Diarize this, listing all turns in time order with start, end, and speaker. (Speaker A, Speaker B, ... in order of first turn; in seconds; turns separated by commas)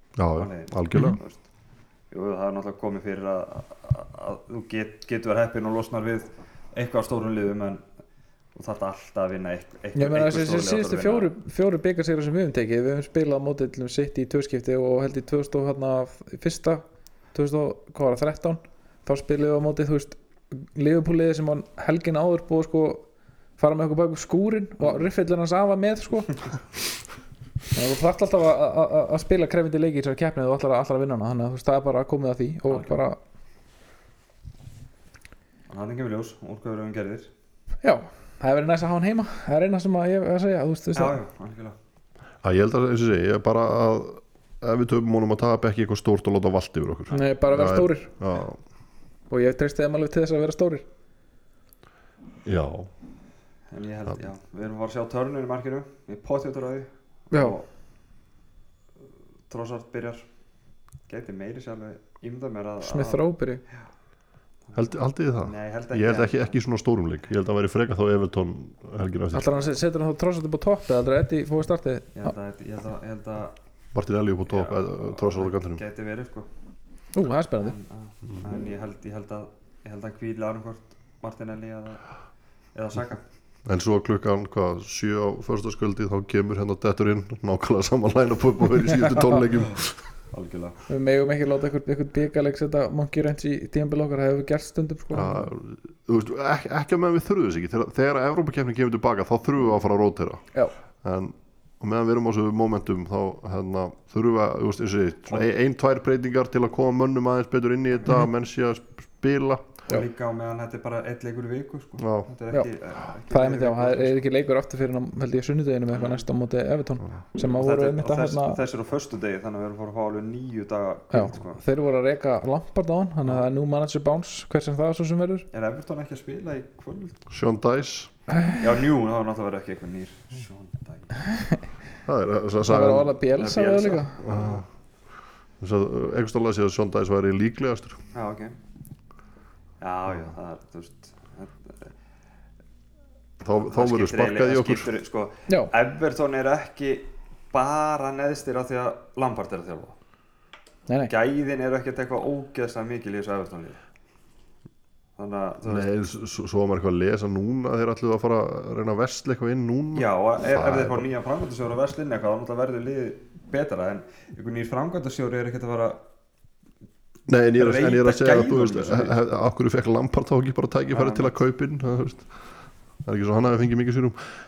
Speaker A: 0.2-1.2, Speaker B: 0.4-1.4, Speaker C: 0.9-1.2, Speaker B: 2.1-7.8, Speaker B: 8.6-11.3, Speaker C: 10.0-16.8, Speaker C: 17.3-23.1, Speaker C: 23.6-26.4, Speaker C: 27.7-33.2, Speaker B: 32.7-33.0, Speaker B: 35.7-37.3, Speaker C: 37.8-41.2, Speaker B: 40.9-41.8, Speaker A: 42.4-48.6, Speaker C: 47.1-48.1, Speaker C: 49.3-50.9, Speaker A: 52.5-52.9, Speaker B: 53.7-57.6, Speaker C: 57.3-57.6, Speaker B: 59.5-60.2, Speaker B: 61.1-63.2, Speaker C: 62.8-63.6, Speaker A: 64.8-69.7, Speaker B: 65.4-66.6, Speaker C: 69.3-72.3, Speaker B: 72.2-73.5, Speaker A: 73.9-75.8, Speaker B: 74.5-76.5, Speaker C: 77.1-77.8, Speaker B: 77.6-82.0, Speaker B: 82.8-83.2, Speaker A: 83.7-90.0, Speaker B: 90.3-90.8, Speaker C: 90.9-95.5, Speaker A: 95.1-100.4, Speaker A: 101.0-109.7, Speaker B: 109.9-114.2, Speaker A: 112.0-112.3, Speaker C: 113.3-118.6, Speaker B: 115.9-116.2, Speaker B: 117.4-121.6, Speaker C: 121.1-125.5, Speaker B: 125.5-127.2, Speaker A: 127.3-128.1, Speaker C: 128.4-128.6, Speaker B: 128.6-131.2, Speaker C: 131.3-131.6, Speaker A: 132.1-133.2, Speaker C: 132.7-134.2, Speaker B: 133.3-134.6, Speaker A: 134.2-134.7, Speaker A: 135.6-138.0, Speaker B: 138.1-138.6, Speaker B: 139.8-141.9, Speaker A: 143.4-144.9, Speaker B: 143.7-150.0, Speaker B: 151.1-153.8, Speaker B: 155.2-155.9, Speaker A: 155.7-161.1, Speaker B: 159.9-166.0, Speaker A: 167.3-172.3, Speaker B: 167.6-169.2, Speaker B: 170.9-171.3, Speaker A: 173.0-174.2